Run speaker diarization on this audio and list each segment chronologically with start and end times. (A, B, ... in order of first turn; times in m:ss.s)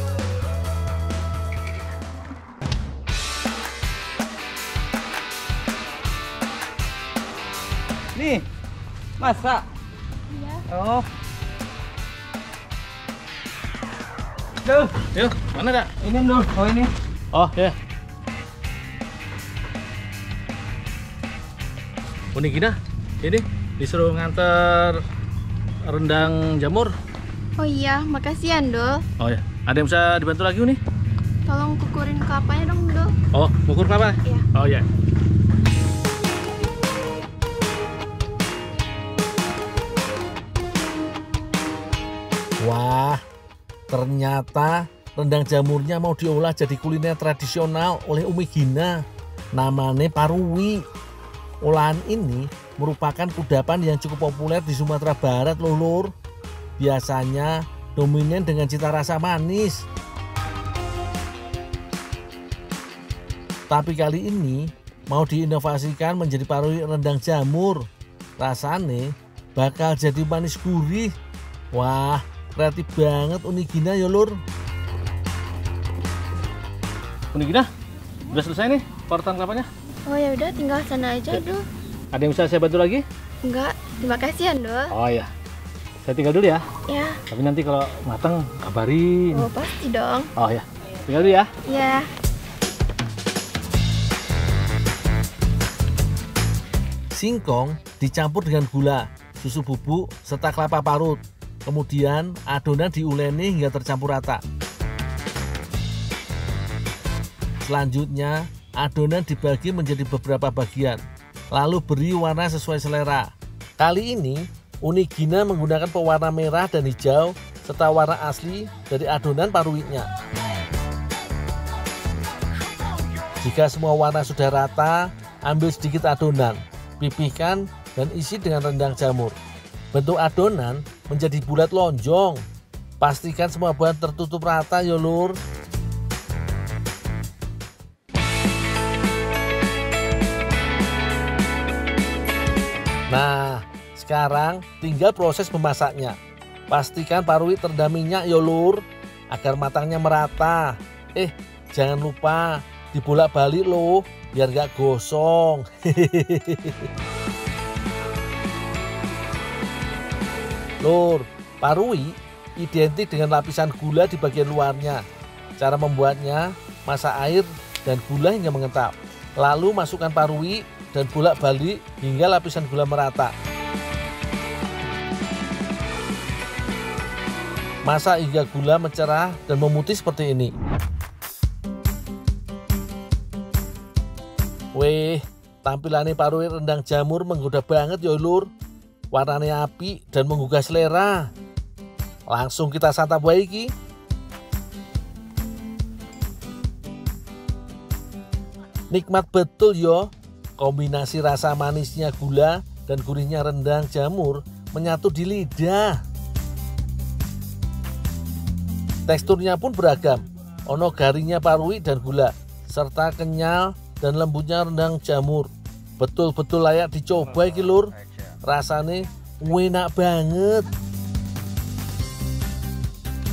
0:08.1-0:08.4 A
0:09.2-0:09.6 A
0:10.7-0:11.0 A
0:14.6-0:14.9 A
0:15.1-0:15.9 B
0:16.0-0:16.9 A
0:17.3-0:17.7 B
0:22.3-0:25.0 B
0:25.8-0:26.9 B
0:27.6-0:29.0 C
0:29.2-0:30.8 B
0:31.4-0:33.1 C
0:33.3-0:34.8 B
0:42.6-0:43.2 D
0:43.9-0:49.0 D
0:49.5-0:50.8 D
0:51.6-0:56.1 D
0:56.8-0:59.8 D
1:03.7-1:07.9 D
1:08.4-1:11.1 D
1:11.7-1:14.4 D
1:17.3-1:17.7 B
1:18.3-1:19.7 B
1:20.0-1:21.6 C
1:22.1-1:23.0 B
1:23.4-1:24.9 C
1:24.9-1:25.3 B
1:26.0-1:26.6 B
1:26.9-1:27.1 C
1:27.3-1:29.5 B
1:29.3-1:30.3 C
1:30.4-1:31.5 B
1:31.7-1:32.1 C
1:37.1-1:44.4 D
1:47.6-2:00.1 D
2:03.4-2:09.4 D
2:09.9-2:12.4 D
2:13.0-2:15.4 D
2:23.1-2:26.2 D
2:26.7-2:36.9 D
2:40.8-2:45.0 D
2:45.6-2:53.3 D
2:57.8-3:00.5 D
3:04.7-3:08.5 D
3:09.1-3:11.3 D
3:12.3-3:13.7 D
3:18.9-3:26.0 D
3:29.1-3:37.9 D
3:38.4-3:40.7 D